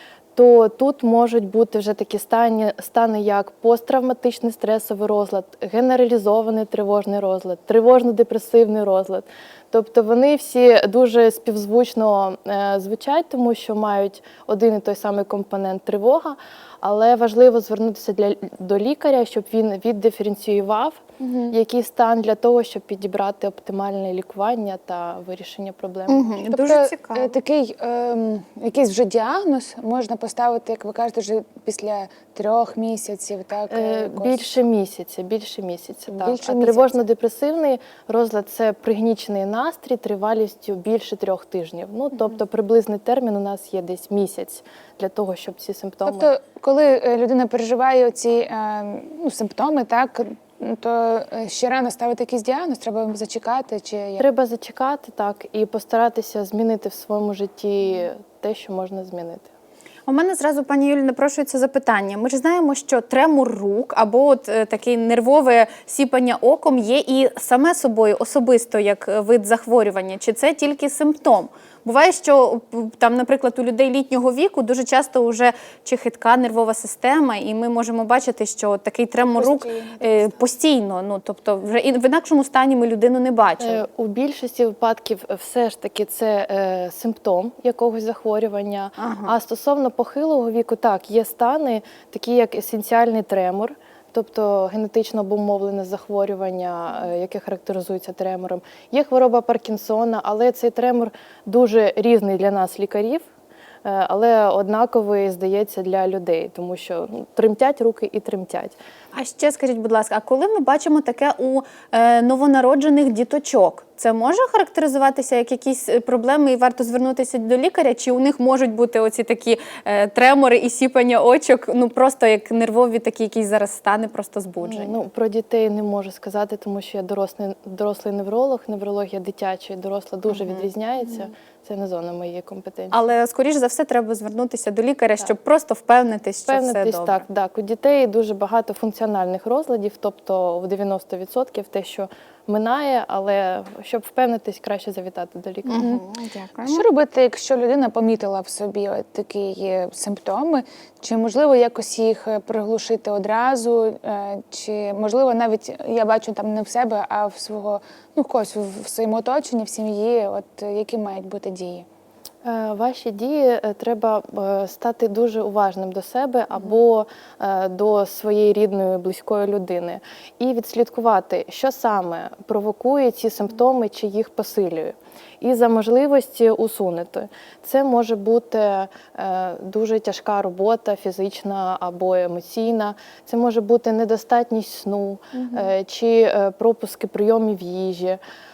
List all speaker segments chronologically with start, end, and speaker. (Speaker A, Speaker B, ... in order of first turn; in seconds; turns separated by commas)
Speaker A: 0.3-26.4, Speaker B: 21.2-21.5, Speaker C: 26.1-27.3, Speaker B: 26.4-34.6, Speaker A: 33.7-46.3, Speaker B: 36.1-37.0, Speaker B: 46.0-54.2, Speaker A: 54.2-59.5, Speaker C: 60.1-83.8, Speaker B: 79.2-80.3, Speaker A: 83.6-103.2, Speaker C: 89.0-89.3, Speaker A: 103.8-108.8, Speaker C: 109.1-124.9, Speaker A: 124.6-133.0, Speaker C: 130.3-130.6, Speaker C: 132.9-137.2, Speaker A: 136.5-145.9, Speaker C: 145.6-146.8, Speaker B: 146.6-161.8, Speaker A: 162.4-188.2, Speaker B: 185.3-185.7